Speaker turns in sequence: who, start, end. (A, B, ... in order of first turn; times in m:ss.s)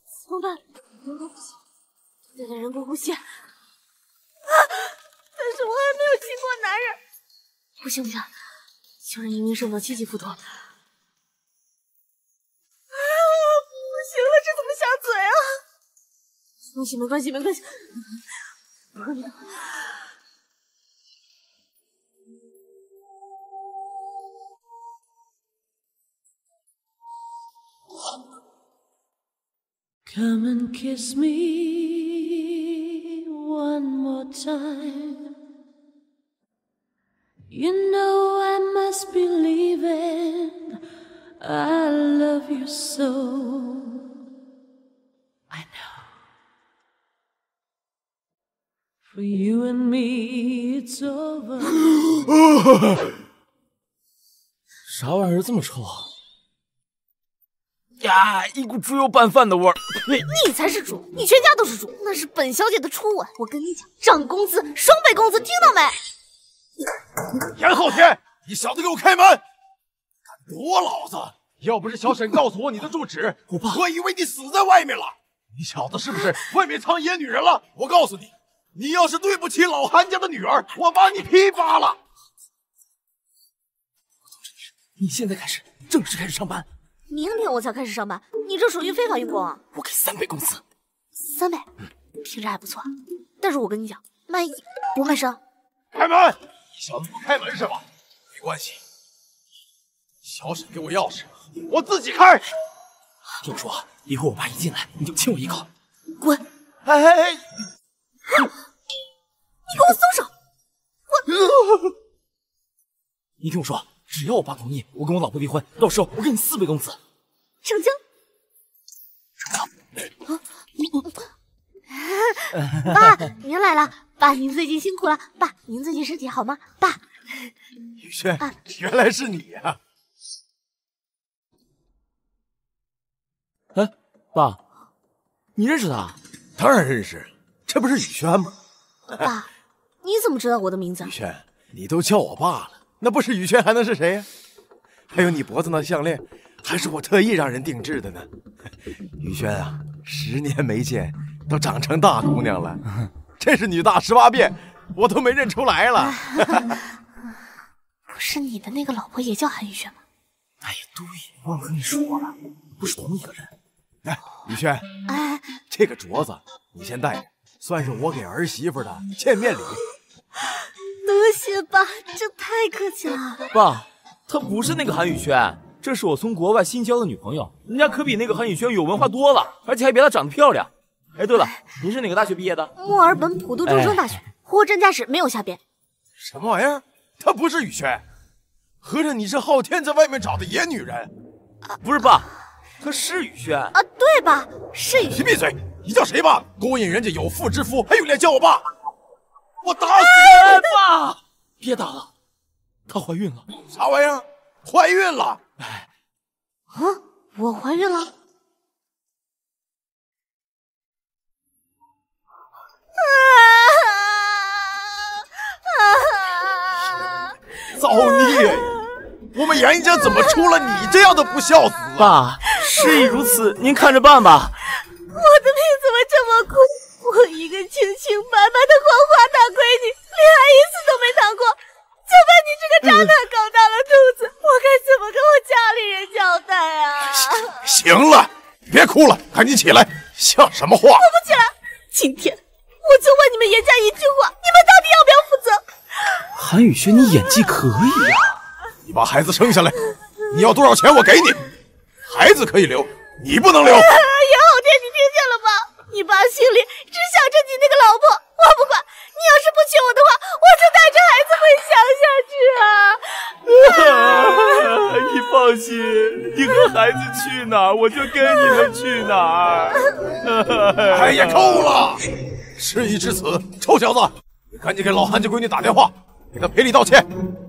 0:00.2-0:01.4 A
0:02.3-0:03.2 A
0:04.4-0:07.0 A
0:07.8-0:08.3 A
0:09.0-0:10.4 A
0:12.9-0:15.6 A
0:16.7-0:17.8 A
0:19.0-0:19.7 A
0:30.1-0:35.3 B
0:37.5-0:40.7 B
0:41.4-0:44.0 B
0:45.5-0:45.9 B
0:49.1-0:51.8 B
0:54.9-0:56.1 C
0:58.0-1:00.2 C
1:00.2-1:06.0 A
1:07.5-1:09.4 D
1:10.5-1:22.0 D
1:13.5-1:13.8 C
1:25.0-1:26.7 C
1:27.1-1:29.6 A
1:29.7-1:30.6 C
1:31.2-1:31.7 A
1:32.2-1:35.4 A
1:35.9-1:38.8 D
1:40.2-1:42.4 D
1:43.4-1:45.7 C
1:46.2-1:46.4 A
1:46.8-1:47.4 C
1:49.7-1:50.3 A
1:53.4-1:57.0 C
1:57.6-1:58.0 A
2:00.3-2:01.1 A
2:01.9-2:07.5 A
2:08.0-2:09.8 D
2:13.7-2:14.6 C
2:15.6-2:16.2 C
2:16.6-2:18.5 D
2:19.2-2:19.5 A
2:20.0-2:21.1 A
2:21.0-2:24.3 D
2:25.1-2:28.3 D
2:29.2-2:32.8 D
2:33.4-2:36.7 D
2:36.1-2:36.4 A
2:38.1-2:40.0 A
2:40.6-2:43.5 C
2:44.0-2:44.8 D
2:45.1-2:45.5 A
2:45.7-2:49.8 D
2:51.0-2:53.5 A
2:53.5-3:02.7 C
3:02.8-3:05.6 A
3:03.6-3:04.0 C
3:06.2-3:08.0 D
3:08.8-3:11.1 D
3:11.8-3:12.3 C
3:12.8-3:13.7 C
3:13.7-3:15.2 A
3:15.0-3:18.6 D
3:19.6-3:20.6 D
3:20.1-3:22.1 C
3:20.2-3:20.5 A
3:22.9-3:23.5 C
3:23.6-3:25.4 D
3:26.7-3:28.1 A
3:33.0-3:37.3 A
3:37.7-3:38.8 D
3:38.1-3:38.5 A
3:39.3-3:42.2 D
3:42.0-3:44.6 C
3:42.5-3:43.1 A
3:45.1-3:57.6 A
3:57.2-4:01.0 D
4:01.0-4:05.6 A
4:06.3-4:08.3 C
4:08.9-4:09.8 D
4:10.3-4:11.5 D
4:12.1-4:13.9 D
4:13.6-4:24.8 A
4:23.5-4:31.7 C
4:30.9-4:32.0 D
4:32.6-4:37.1 D